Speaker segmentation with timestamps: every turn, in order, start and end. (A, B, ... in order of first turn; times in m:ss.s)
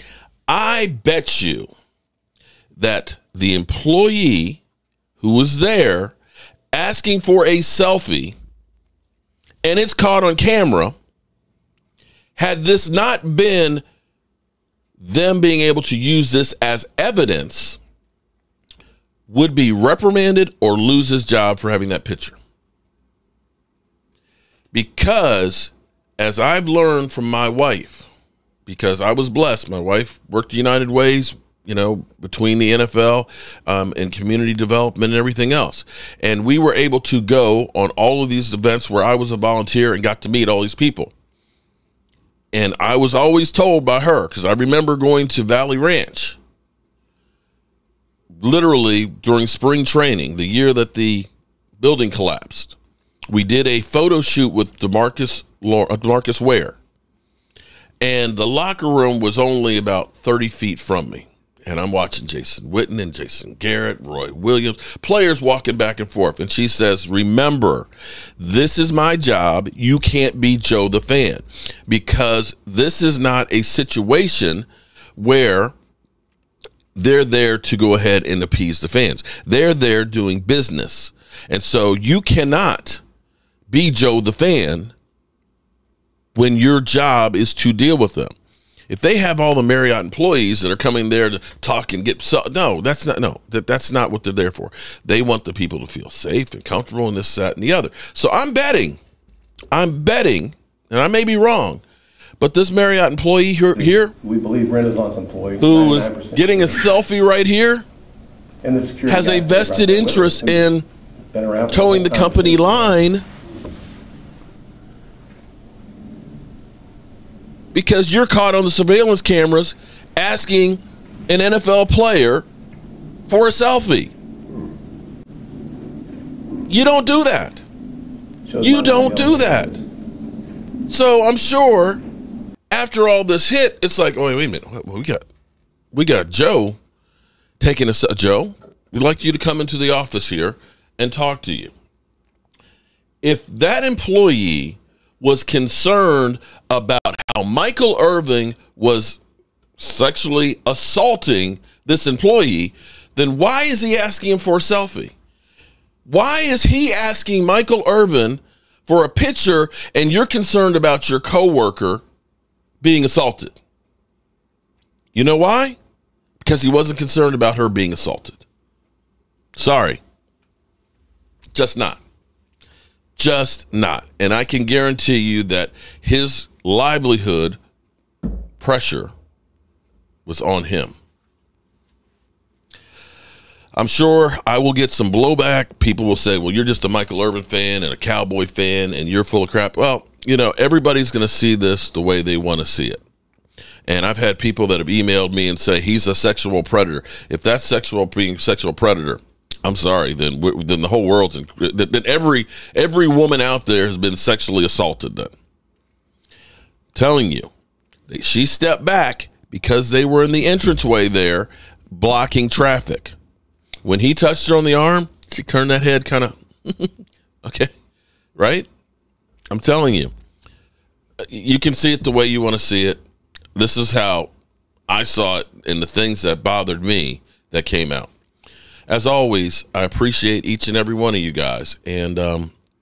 0:00.5-0:01.7 A
0:02.8-0:04.6 A
0:05.2-0:06.2 A
0:06.7-0:08.4 A
0:09.6-0:11.0 A
0:12.4-0:13.8 A
0:15.0-0:17.8 A
0:19.3-0:22.4 A
0:24.7-0:28.1 A
0:28.7-0:41.1 A
0:42.5-0:46.4 A
0:48.4-0:51.3 A
0:51.8-0:52.8 A
0:53.3-0:56.8 A
0:58.0-1:15.8 A
1:17.0-1:23.0 A
1:23.7-1:24.9 A
1:26.4-1:28.3 A
1:28.9-1:39.0 A
1:39.7-1:41.8 A
1:42.4-1:44.1 A
1:43.8-1:46.9 B
1:45.6-1:47.9 A
1:48.6-1:50.7 B
1:49.1-1:50.8 A
1:51.3-1:53.0 B
1:51.7-1:53.2 A
1:57.7-2:02.5 A
2:03.3-2:04.1 A
2:06.7-2:07.6 A
2:08.5-2:09.8 B
2:08.6-2:09.7 A
2:10.9-2:12.0 A
2:12.7-2:15.2 A
2:15.9-2:16.8 A
2:17.6-2:21.7 A
2:23.2-2:29.2 A
2:29.8-2:35.1 A
2:36.1-2:42.0 A
2:42.8-2:43.6 A
2:45.1-2:45.8 A
2:46.4-2:48.4 A
2:49.6-2:50.0 A
2:51.5-2:52.0 A
2:53.2-2:57.6 A
2:58.6-2:59.1 A
3:00.3-3:01.0 A
3:03.8-3:13.0 A
3:13.9-3:25.3 A
3:26.9-3:27.5 A
3:28.1-3:33.2 A
3:33.8-3:37.7 A
3:38.4-3:38.7 A
3:39.5-3:40.1 A
3:41.2-3:43.0 A
3:43.6-3:44.3 A
3:44.9-3:48.1 A
3:48.9-3:52.5 A